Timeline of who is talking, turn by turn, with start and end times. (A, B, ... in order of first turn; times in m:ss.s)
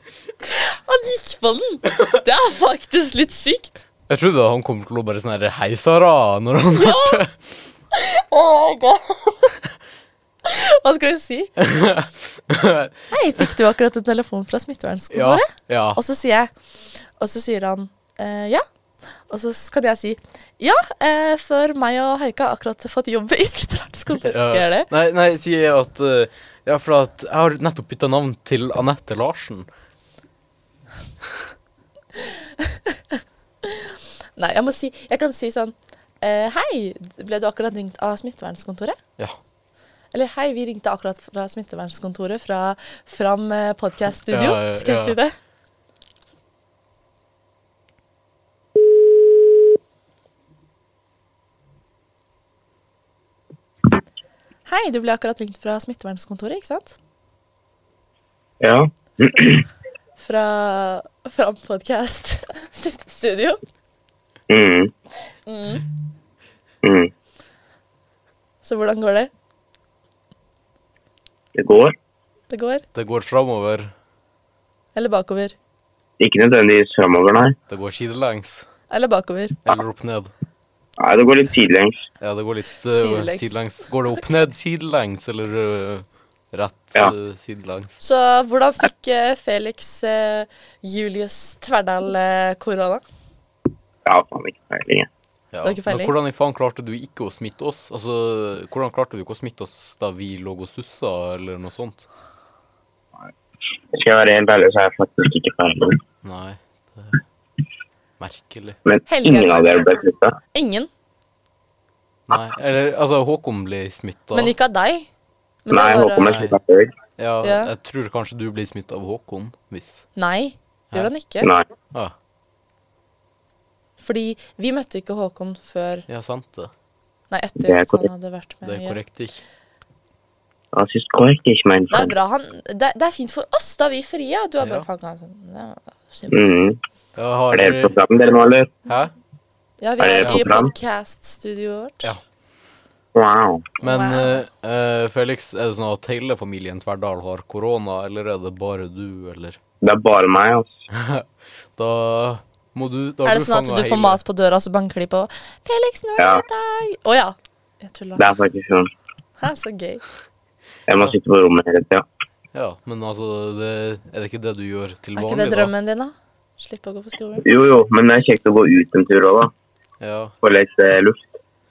0:00.4-0:03.8 A
0:04.1-0:07.4 B
0:06.7-0:07.2 A
0:07.9-0:09.6 A
0:10.4-0:11.5 A
0:11.6-0:13.5 B
0:13.1-0:18.6 A
0:15.1-0:16.0 B
0:19.3-0:24.9 A
0:24.2-0:29.7 B
0:32.2-0:39.0 A
0:40.1-0:45.3 A
0:44.3-0:45.2 B
0:54.6-0:57.0 A
0:58.6-0:59.6 C
1:00.2-1:03.6 A
1:04.5-1:04.9 C
1:05.4-1:05.8 A
1:06.8-1:07.1 C
1:08.6-1:09.3 A
1:11.5-1:11.9 C
1:12.5-1:12.8 A
1:12.9-1:13.9 B
1:14.9-1:15.5 A
1:16.2-1:17.6 C
1:17.7-1:18.7 B
1:18.9-1:19.6 A
1:19.6-1:20.3 B
1:21.0-1:22.0 C
1:22.2-1:28.0 B
1:22.9-1:23.7 A
1:28.0-1:33.0 A
1:34.0-1:35.1 C
1:35.5-1:42.1 B
1:35.6-1:36.1 A
1:43.9-1:46.0 C
1:46.2-1:47.2 B
1:48.2-1:48.8 B
1:48.8-1:50.4 C
1:49.1-1:50.9 A
1:52.3-1:54.5 B
1:54.3-1:55.1 A
1:55.6-1:56.4 A
1:55.7-1:56.9 C
1:56.2-1:56.6 B
1:57.2-2:00.0 B
1:57.4-1:57.7 A
2:00.2-2:01.5 A
2:04.0-2:06.1 A
2:06.1-2:06.7 B
2:07.3-2:09.0 A
2:07.6-2:08.0 C
2:08.6-2:09.4 B
2:10.7-2:12.1 C
2:11.9-2:16.5 A
2:14.6-2:14.9 B
2:16.3-2:16.8 C
2:17.2-2:18.0 B
2:17.5-2:18.7 C
2:18.8-2:19.1 B
2:19.8-2:22.1 A
2:20.0-2:20.7 C
2:23.1-2:23.7 C
2:23.8-2:24.4 A
2:23.8-2:29.6 B
2:29.8-2:30.8 C
2:30.9-2:34.2 B
2:33.2-2:38.2 A
2:36.2-2:36.4 C
2:38.2-2:38.9 C
2:39.4-2:40.0 A
2:40.9-2:42.0 C
2:42.5-2:45.7 B
2:45.2-2:47.4 A
2:47.4-2:49.5 C
2:50.0-2:50.3 B
2:50.4-2:51.3 C